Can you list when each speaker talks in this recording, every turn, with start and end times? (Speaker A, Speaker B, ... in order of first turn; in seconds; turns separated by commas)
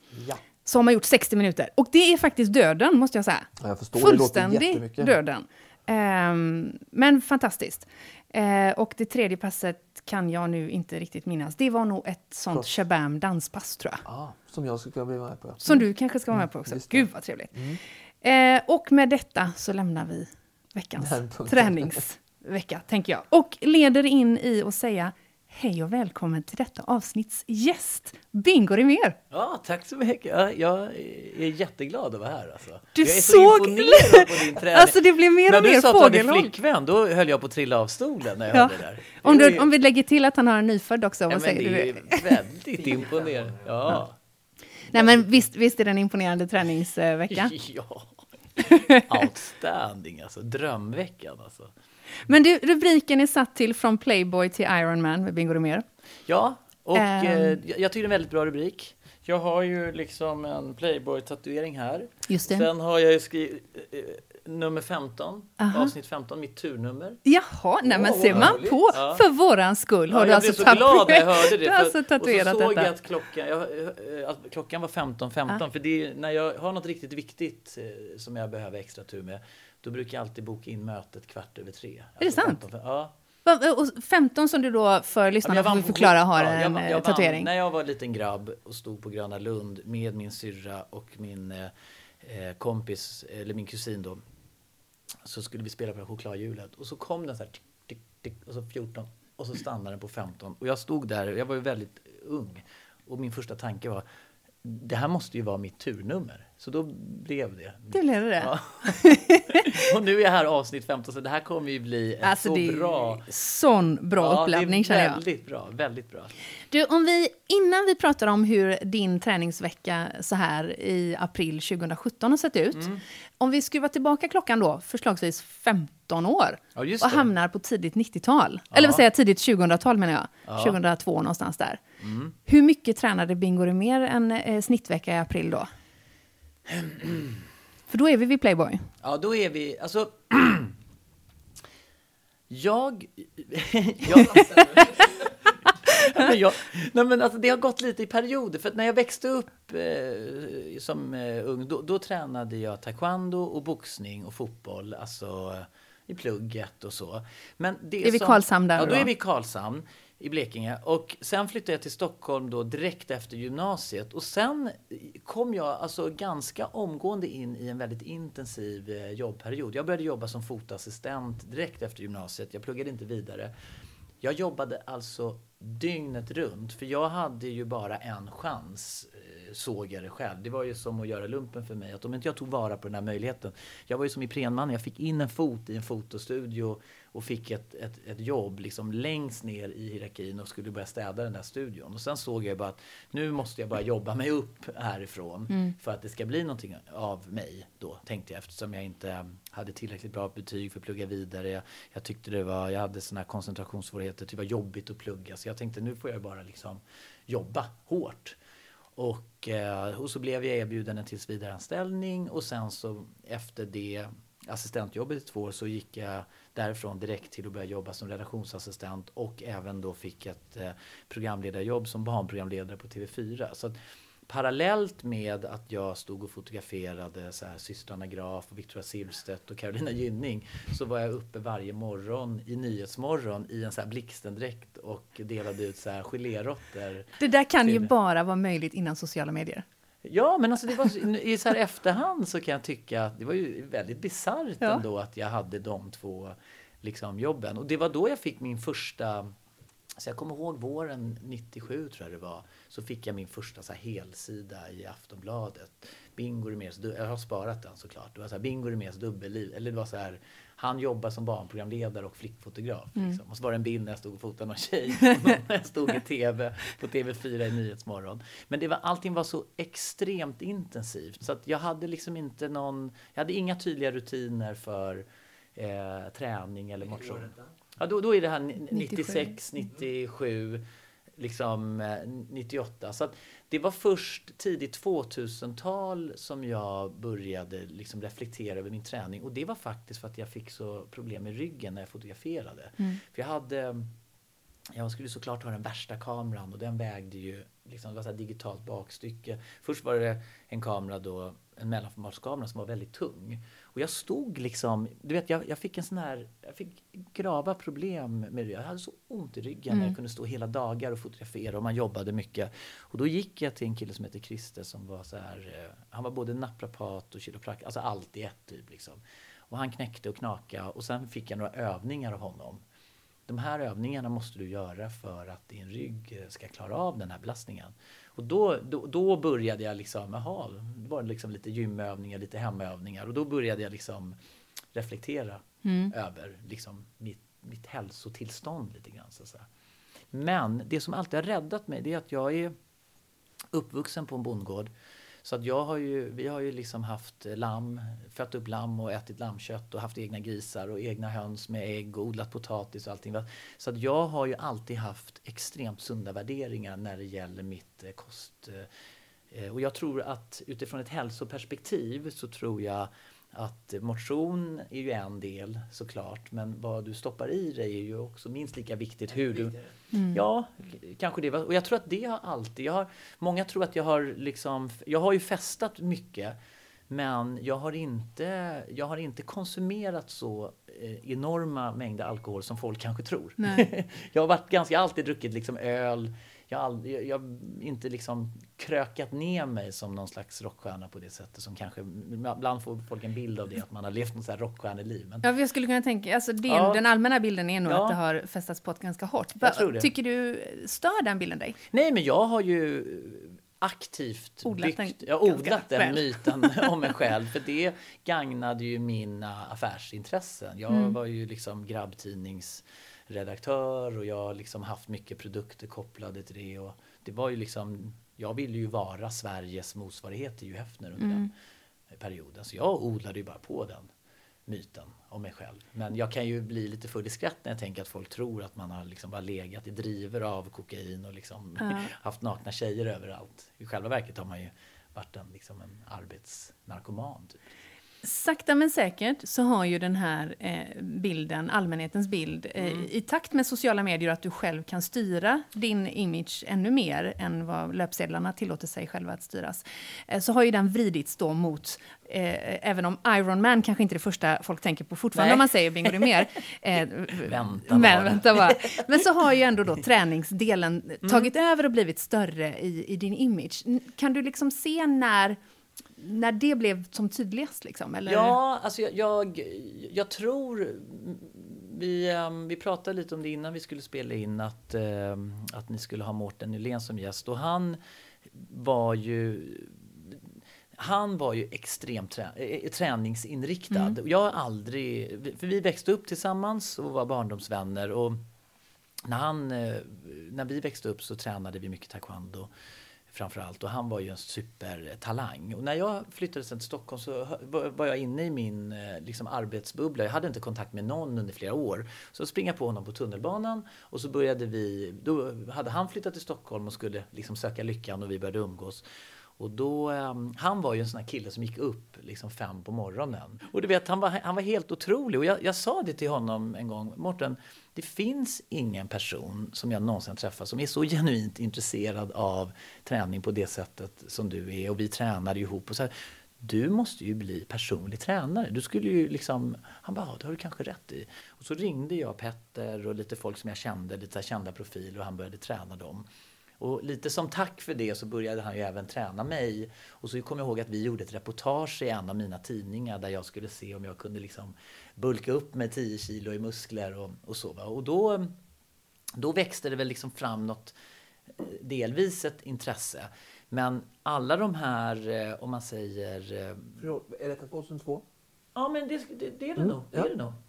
Speaker A: 0.1-0.4, Speaker B: 0.6-14.0, Speaker A: 3.6-5.2, Speaker A: 14.0-17.8, Speaker B: 15.6-17.6, Speaker B: 18.2-29.2, Speaker A: 21.0-22.0, Speaker C: 29.3-39.7, Speaker B: 33.0-36.5, Speaker B: 38.5-42.3, Speaker C: 41.3-44.1, Speaker A: 43.1-43.6, Speaker B: 44.9-47.5, Speaker C: 47.3-48.2, Speaker B: 48.6-49.0, Speaker C: 48.9-51.7, Speaker B: 52.2-55.8, Speaker C: 56.3-67.2, Speaker B: 56.9-57.6, Speaker B: 62.3-62.7, Speaker B: 65.6-65.9, Speaker B: 67.2-72.9, Speaker A: 67.8-68.8, Speaker C: 68.3-69.2, Speaker C: 70.1-83.1, Speaker B: 82.2-82.6, Speaker B: 83.4-87.5, Speaker C: 85.4-94.2, Speaker C: 95.2-104.0, Speaker C: 104.6-113.2, Speaker B: 107.9-109.8, Speaker B: 112.2-115.2, Speaker C: 114.2-116.3, Speaker B: 116.7-131.8, Speaker C: 122.7-123.0, Speaker C: 126.7-127.3, Speaker C: 128.7-129.0, Speaker C: 130.5-130.8, Speaker C: 132.0-132.3, Speaker B: 132.4-135.7, Speaker C: 136.7-137.4, Speaker B: 137.9-138.9, Speaker C: 139.0-140.7, Speaker C: 142.5-173.5, Speaker B: 144.1-144.8, Speaker B: 158.0-159.1, Speaker C: 174.2-208.4, Speaker C: 208.9-223.8, Speaker C: 224.3-237.9, Speaker B: 237.2-239.6, Speaker C: 240.0-249.3, Speaker C: 250.0-280.6, Speaker B: 278.7-279.3, Speaker C: 281.2-293.9, Speaker C: 294.7-322.6, Speaker B: 309.7-309.9, Speaker C: 323.3-334.1, Speaker C: 334.7-339.5, Speaker B: 335.6-335.9, Speaker C: 340.1-342.5, Speaker C: 343.5-344.7, Speaker C: 345.2-358.7, Speaker C: 359.3-369.6, Speaker B: 369.9-370.2, Speaker C: 370.1-376.3, Speaker C: 376.9-395.2, Speaker B: 383.4-383.6, Speaker B: 395.2-401.6, Speaker C: 396.5-396.8, Speaker C: 397.6-398.0, Speaker C: 399.4-399.9, Speaker C: 401.7-421.3, Speaker B: 404.4-406.7, Speaker B: 410.7-410.9, Speaker B: 421.0-421.3, Speaker C: 421.9-423.9, Speaker C: 424.5-437.4, Speaker B: 431.6-431.9, Speaker B: 438.0-465.4, Speaker C: 442.6-442.9, Speaker C: 455.1-456.2, Speaker C: 457.2-459.0, Speaker C: 461.0-461.3, Speaker B: 466.0-468.4, Speaker C: 468.1-477.8, Speaker C: 478.3-480.2, Speaker C: 480.8-488.2, Speaker C: 489.0-492.5, Speaker C: 493.1-508.8, Speaker C: 509.4-536.0, Speaker C: 536.6-548.3, Speaker C: 549.1-550.7, Speaker C: 551.4-556.8, Speaker A: 556.8-558.0, Speaker C: 558.5-560.4, Speaker A: 559.6-560.1